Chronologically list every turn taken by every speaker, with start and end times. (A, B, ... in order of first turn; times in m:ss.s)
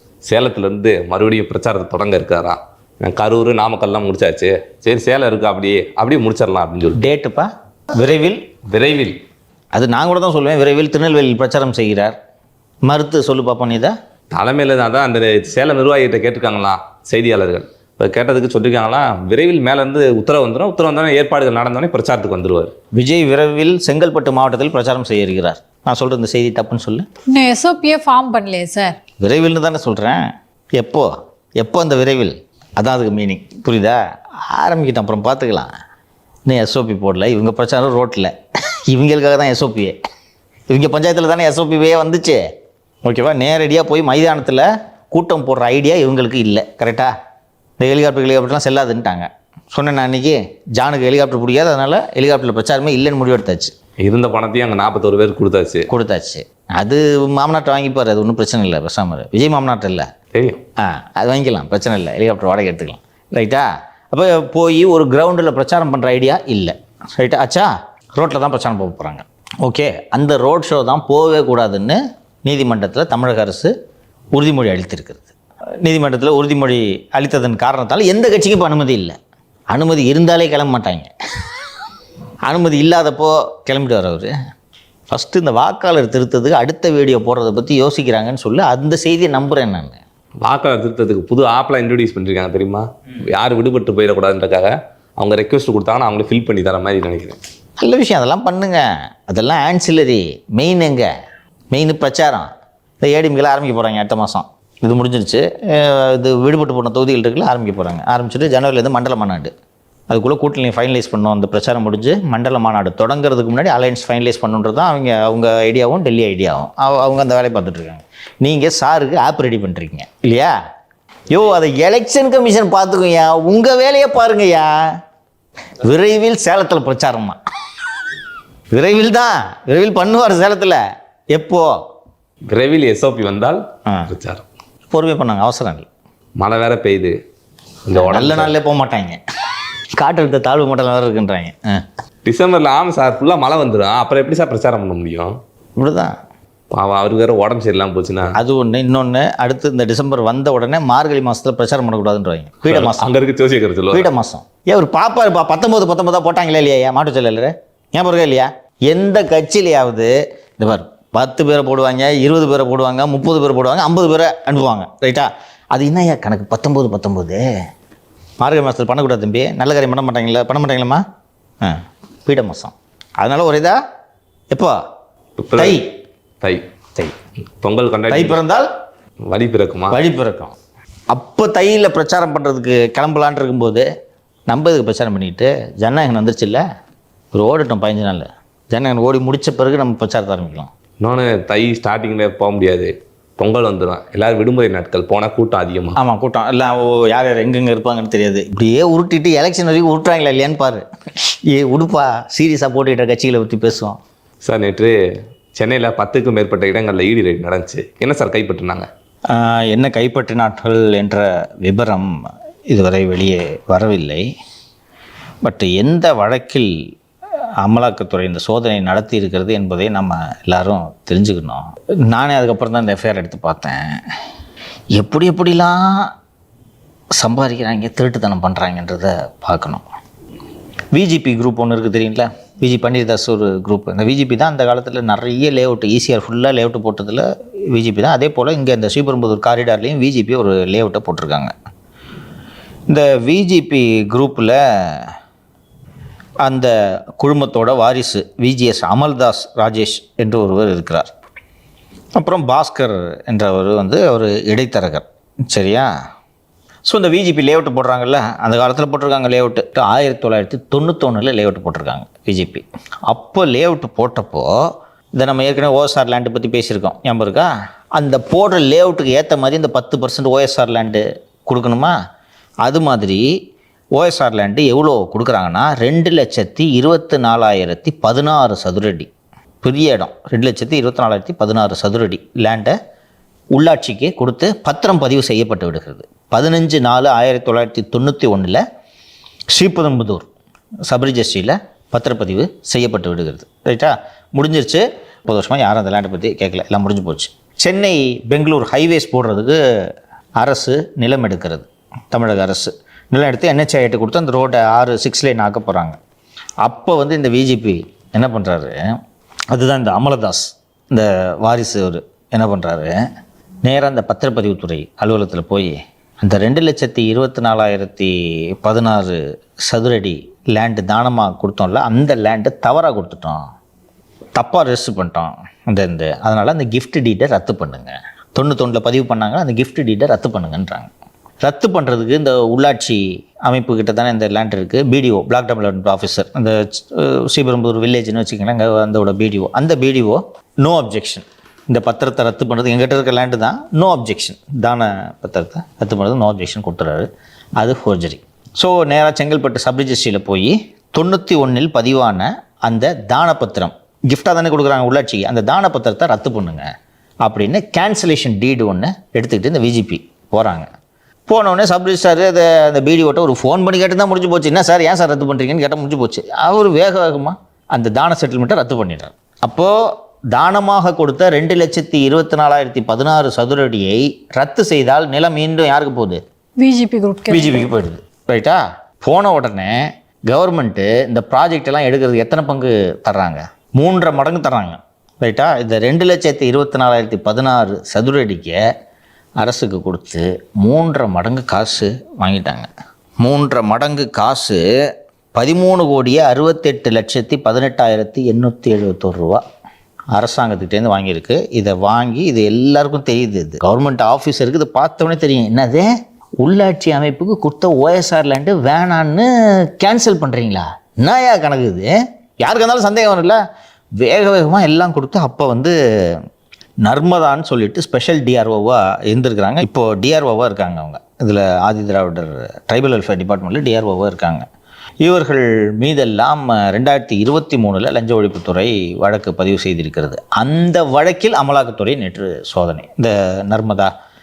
0:00.2-0:07.0 A
0:07.0-0:08.4 B
0:08.7-0:09.2 A
0:09.7-0:12.2 B
0:12.8-0:13.9 B
0:14.3-0:22.7 A
0:22.9-0:27.0 B
0:27.3-0:29.0 C
0:29.2-0:30.2 B
0:30.8-0:35.7 B
0:36.4-0:38.3 B
0:38.9-0:39.9 B
0:40.7-0:42.4 B
0:43.0-0:47.1 B
0:47.8-0:53.7 B
0:54.0-0:55.9 A
0:55.9-1:00.1 B
1:00.3-1:00.6 A
1:00.8-1:13.7 B
1:14.3-1:15.3 B
1:15.8-1:19.2 B
1:19.7-1:21.1 B
1:22.4-1:24.3 B
1:25.1-1:30.0 B
1:30.4-1:37.4 A
1:37.8-1:41.1 B
1:41.7-1:42.5 B
1:43.0-1:49.5 B
1:50.1-2:00.5 B
2:01.3-2:04.7 B
2:05.8-2:07.4 B
2:08.7-2:10.8 B
2:11.3-2:11.7 B
2:12.5-2:14.4 A
2:14.9-2:15.9 B
2:16.4-2:17.1 A
2:17.8-2:18.5 A
2:17.9-2:19.2 B
2:20.0-2:21.8 B
2:22.2-2:25.4 A
2:25.8-2:26.1 B
2:26.7-2:28.4 A
2:28.4-2:33.1 B
2:32.6-2:34.1 A
2:33.9-2:47.4 B
2:48.4-2:51.0 B
2:51.6-2:53.8 B
2:55.4-2:55.8 A
2:55.6-2:55.8 B
2:57.6-2:58.4 A
2:58.1-2:58.7 B
2:59.3-3:00.0 A
2:59.9-3:00.5 B
3:01.1-3:03.8 B
3:04.5-3:06.6 B
3:07.3-3:10.7 B
3:11.0-3:16.0 A
3:16.0-3:20.8 B
3:21.5-3:24.0 B
3:24.4-3:24.9 A
3:25.6-3:28.9 A
3:29.3-3:32.2 B
3:32.7-3:34.3 B
3:35.4-3:36.7 B
3:37.6-3:43.8 B
3:44.9-3:46.1 B
3:47.2-3:49.8 B
3:50.9-4:01.5 B
4:02.9-4:05.1 B
4:06.4-4:11.1 B
4:12.2-4:15.9 B
4:16.9-4:24.5 B
4:25.2-4:31.9 B
4:32.6-4:33.3 B
4:34.0-4:39.1 B
4:39.6-4:42.7 B
4:43.5-4:48.6 B
4:49.5-4:50.3 B
4:50.9-4:59.6 B
5:00.4-5:06.0 B
5:06.6-5:08.7 B
5:09.5-5:13.0 B
5:13.6-5:23.4 B
5:24.4-5:30.9 B
5:31.4-5:47.1 B
5:47.6-5:56.7 B
5:57.2-6:00.7 B
6:01.3-6:09.7 B
6:10.3-6:16.2 B
6:16.6-6:17.7 C
6:17.3-6:28.6 B
6:29.4-6:32.7 B
6:33.2-6:34.6 B
6:35.3-6:39.4 B
6:40.1-6:45.9 B
6:46.4-6:53.4 B
6:54.0-6:56.2 B
6:56.8-7:04.4 B
7:05.0-7:13.9 B